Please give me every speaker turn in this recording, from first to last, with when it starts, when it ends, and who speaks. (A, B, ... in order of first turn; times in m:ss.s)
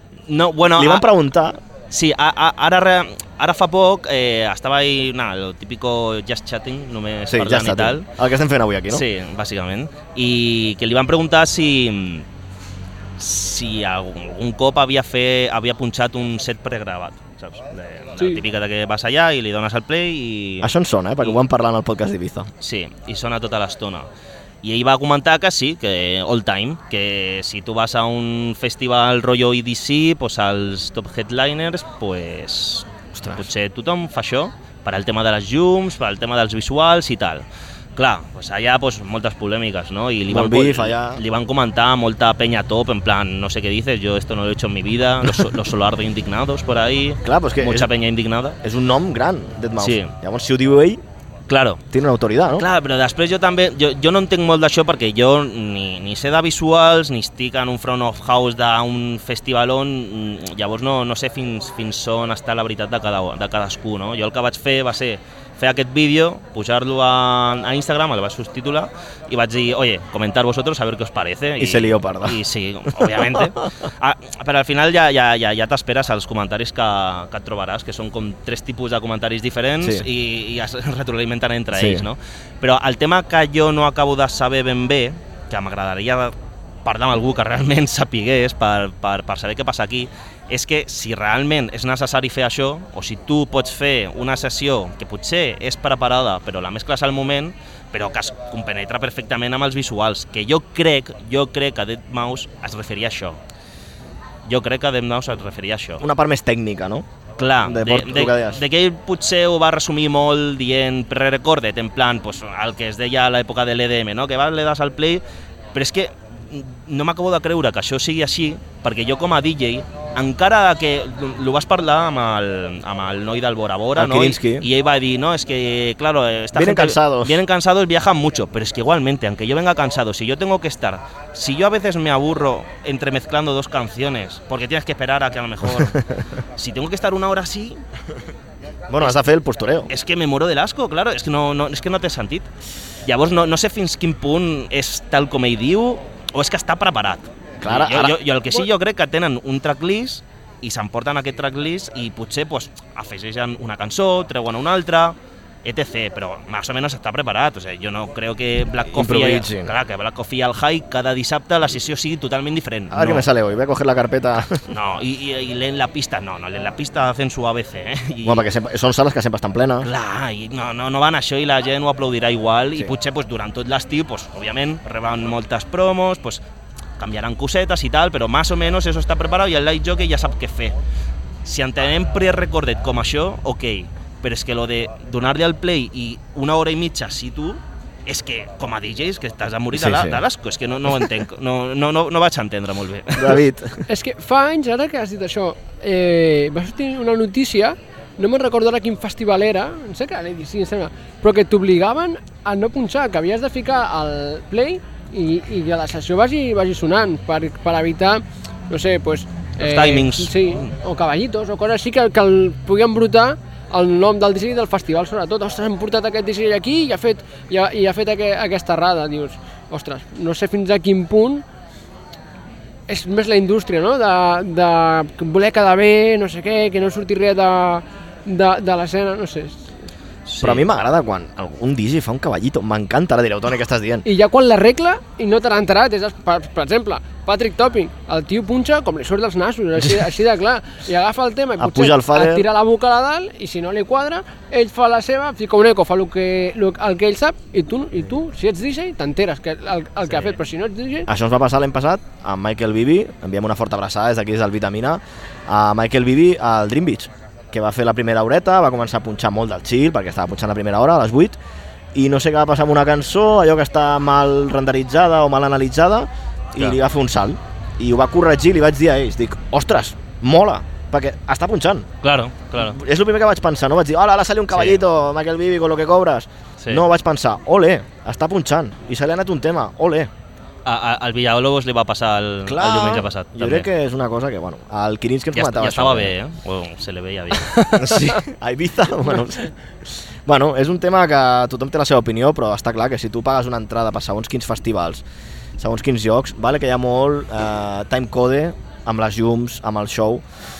0:00.3-0:01.1 A
0:00.8-0:01.6 B
0:01.9-0:08.1 A
0:07.3-0:09.0 B
0:08.9-0:12.2 A
0:13.2-0:21.4 A
0:20.6-0:22.5 B
0:22.6-0:24.1 A
0:24.6-0:37.4 A
0:33.1-0:33.5 B
0:38.0-0:48.6 A
0:40.3-0:41.2 B
0:47.2-0:47.9 B
0:48.6-0:51.0 B
0:49.8-0:50.1 A
0:51.5-0:51.8 A
0:51.9-0:52.7 B
0:52.6-1:26.3 A
1:11.6-1:12.4 B
1:13.0-1:13.5 B
1:19.8-1:20.1 B
1:21.7-1:22.1 B
1:26.8-1:43.4 A
1:44.4-1:46.0 A
1:46.0-1:47.0 B
1:47.4-1:55.2 A
1:47.6-1:48.6 B
1:55.7-2:16.0 A
2:04.0-2:04.7 B
2:06.5-2:07.4 B
2:16.6-2:17.8 A
2:18.9-2:19.9 B
2:19.9-2:22.5 A
2:23.0-2:43.3 A
2:27.6-2:28.2 B
2:38.9-2:39.7 B
2:42.9-2:44.7 B
2:44.7-2:48.4 A
2:48.2-2:49.9 B
2:49.8-2:56.4 A
2:57.0-3:00.8 A
3:01.4-3:13.4 A
3:09.7-3:10.2 B
3:13.1-3:13.9 B
3:13.9-3:41.4 C
3:29.6-3:30.7 A
3:42.9-3:49.7 C
3:50.3-3:50.7 A
3:50.4-3:54.0 B
3:54.0-4:11.1 C
4:01.6-4:02.5 B
4:11.1-4:21.4 B
4:21.9-4:31.9 B
4:32.0-4:32.8 A
4:32.6-4:40.1 B
4:34.5-4:34.8 A
4:40.6-4:43.7 A
4:42.4-4:46.1 B
4:45.3-4:48.1 A
4:47.7-4:55.0 B
4:55.6-5:00.2 B